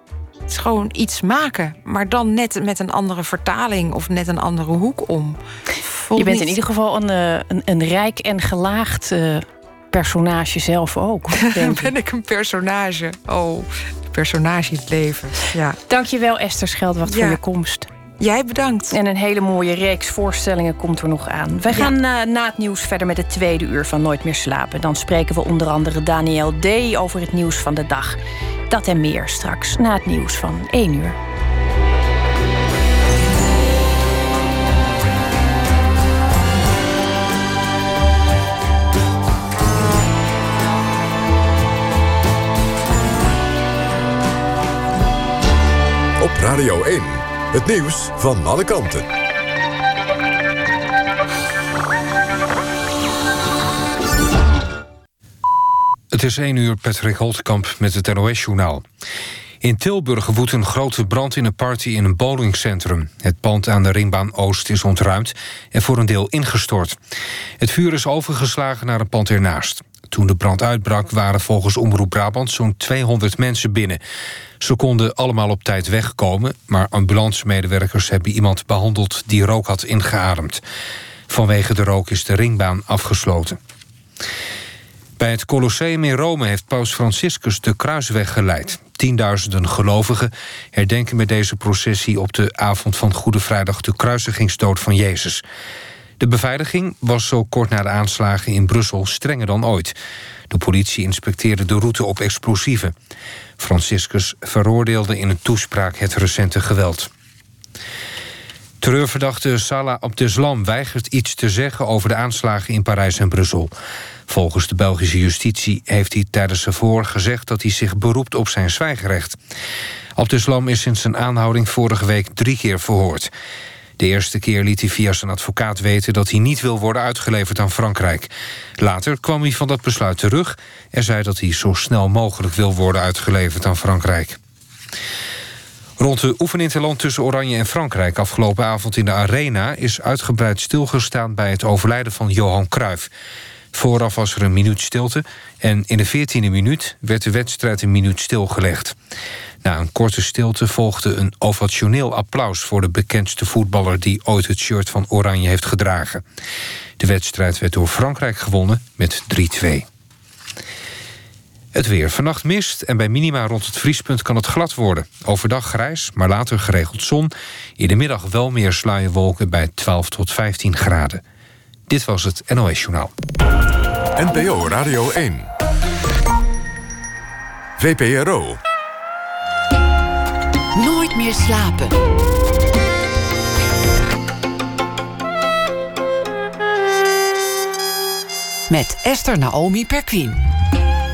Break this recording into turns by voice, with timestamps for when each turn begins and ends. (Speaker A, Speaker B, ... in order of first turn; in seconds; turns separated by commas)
Speaker A: 0.5-6.6, Speaker B: 6.2-11.9, Speaker A: 11.4-15.8, Speaker B: 15.9-17.9, Speaker A: 17.1-17.4, Speaker A: 18.2-18.9, Speaker B: 18.9-31.2, Speaker C: 46.2-49.1, Speaker D: 56.1-58.8, Speaker D: 59.6-67.0, Speaker D: 67.6-74.0, Speaker D: 74.6-80.6, Speaker D: 81.3-83.6, Speaker D: 85.2-95.4, Speaker D: 96.2-100.0, Speaker D: 100.5-102.9, Speaker D: 103.6-107.1, Speaker D: 108.8-113.7, Speaker D: 114.3-119.4, Speaker D: 120.2-123.3, Speaker D: 124.0-134.4, Speaker D: 136.0-143.1, Speaker D: 143.7-148.9, Speaker D: 149.6-156.2, Speaker D: 157.0-159.8, Speaker D: 161.7-171.2, Speaker D: 171.9-173.1, Speaker C: 174.2-175.5, Speaker C: 177.8-178.6, Speaker E: 180.8-181.9, Speaker E: 188.7-190.4